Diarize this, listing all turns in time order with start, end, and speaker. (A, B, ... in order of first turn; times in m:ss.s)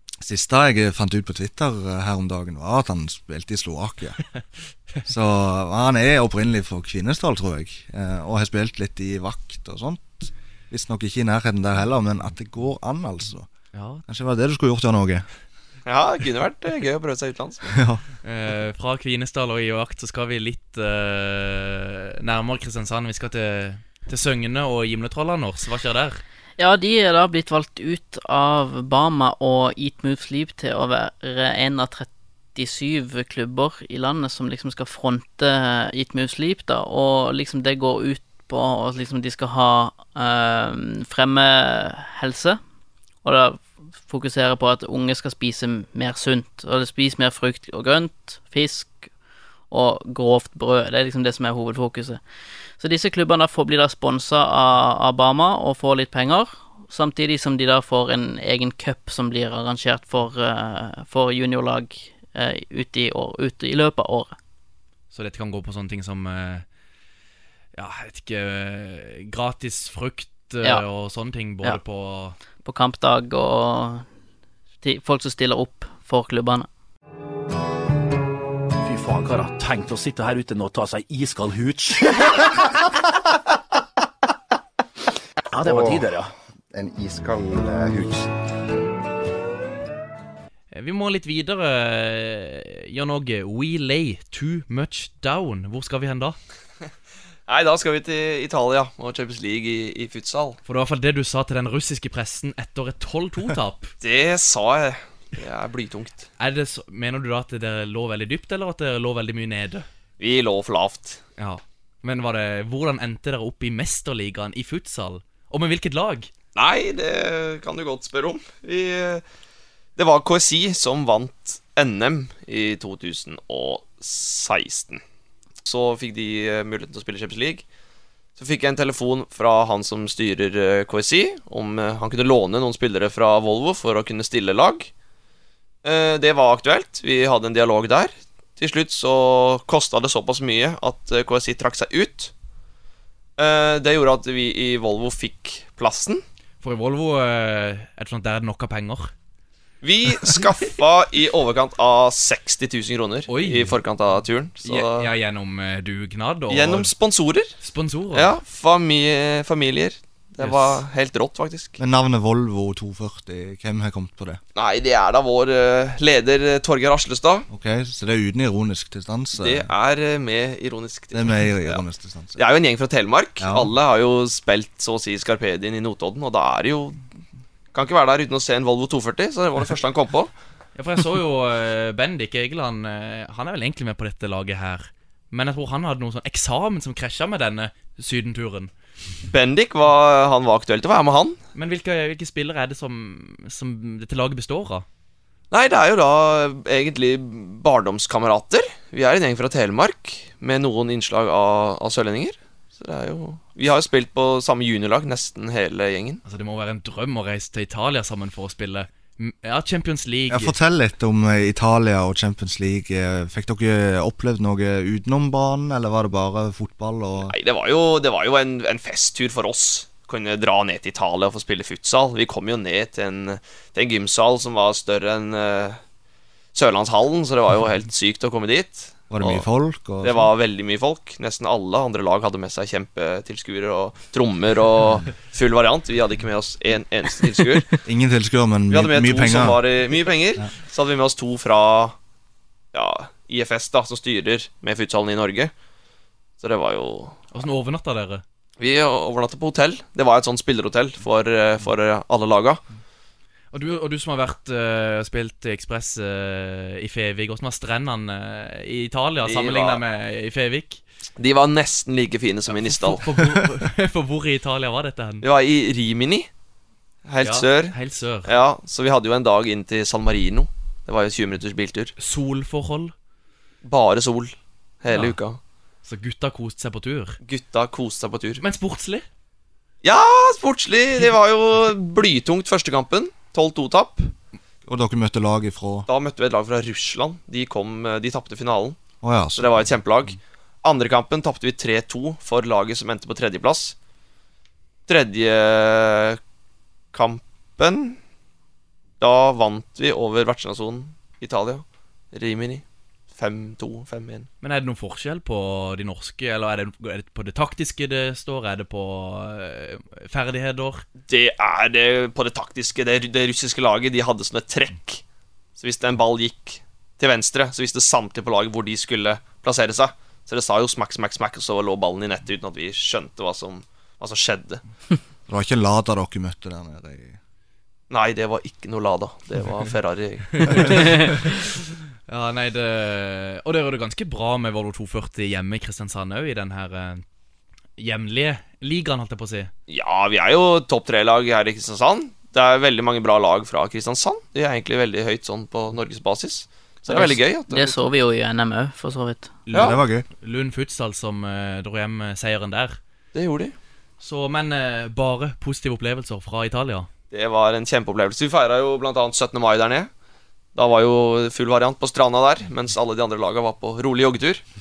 0:00.2-0:04.2 A
0:05.0-0:13.5 A
0:13.7-0:14.0 B
0:14.1-0:15.2 A
0:15.8-0:17.7 C
0:17.7-0:18.0 A
0:18.2-0:26.2 B
0:26.6-0:42.6 D
0:43.2-0:49.1 D
0:49.7-0:52.2 D
0:52.8-1:04.3 D
1:05.1-1:06.6 B
1:07.7-1:12.4 B
1:12.6-1:14.0 D
1:14.8-1:16.7 D
1:18.8-1:22.1 E
1:25.5-1:26.3 E
1:25.6-1:26.1 F
1:26.7-1:28.3 F
1:30.7-1:36.4 B
1:37.5-1:40.6 C
1:40.6-1:43.9 B
1:44.0-1:46.2 C
1:46.4-1:49.8 B
1:50.2-1:51.2 C
1:51.4-1:56.3 B
1:56.5-1:59.2 C
2:00.0-2:05.0 C
2:05.6-2:07.6 C
2:08.4-2:14.9 C
2:15.8-2:22.3 C
2:23.4-2:26.2 C
2:26.6-2:29.1 B
2:29.8-2:35.1 C
2:33.3-2:33.8 B
2:34.6-2:36.9 B
2:36.5-2:37.5 C
2:37.6-2:38.3 B
2:38.1-2:41.8 C
2:40.4-2:40.8 B
2:41.8-2:44.4 A
2:44.5-2:47.5 C
2:47.5-2:49.7 A
2:49.4-2:51.8 C
2:51.1-2:52.4 A
2:52.4-2:57.0 C
2:53.4-2:53.7 A
2:57.7-3:00.3 C
3:00.7-3:08.7 B
3:09.3-3:11.4 C
3:11.5-3:14.8 B
3:15.5-3:26.2 C
3:26.2-3:30.5 B
3:30.3-3:37.3 A
3:37.2-3:45.8 C
3:46.5-3:49.4 C
3:49.1-3:50.3 A
3:50.0-3:57.8 C
3:57.8-3:59.6 A
3:58.7-4:02.0 C
4:02.7-4:05.5 C
4:06.4-4:07.2 C
4:07.3-4:08.2 B
4:08.6-4:12.6 C
4:13.5-4:20.8 B
4:19.2-4:19.8 C
4:21.2-4:23.0 C
4:22.5-4:25.2 B
4:25.2-4:26.3 C
4:27.0-4:27.7 C
4:27.2-4:28.3 B
4:28.2-4:31.9 C
4:32.0-4:32.9 B
4:33.6-4:35.4 C
4:34.9-4:35.2 B
4:35.8-4:37.2 B
4:37.2-4:38.4 C
4:38.4-4:39.0 B
4:39.8-4:44.1 C
4:44.6-4:45.9 A
4:45.9-4:48.8 C
4:49.0-4:49.7 A
4:49.4-4:53.7 C
4:54.9-4:56.2 C
4:56.9-4:58.0 C
4:59.0-5:02.6 C
5:03.1-5:04.3 C
5:04.4-5:10.8 B
5:11.0-5:15.0 C
5:15.6-5:24.6 C
5:25.3-5:27.2 A
5:27.9-5:31.0 C
5:30.3-5:37.0 B
5:37.8-5:39.5 B
5:39.7-5:47.8 C
5:46.9-5:49.4 D
5:49.5-5:49.8 C
5:49.5-5:50.0 A
5:49.6-5:52.8 B
5:53.1-5:53.6 C
5:54.0-5:56.9 B
5:57.1-5:59.9 C
6:00.5-6:04.4 C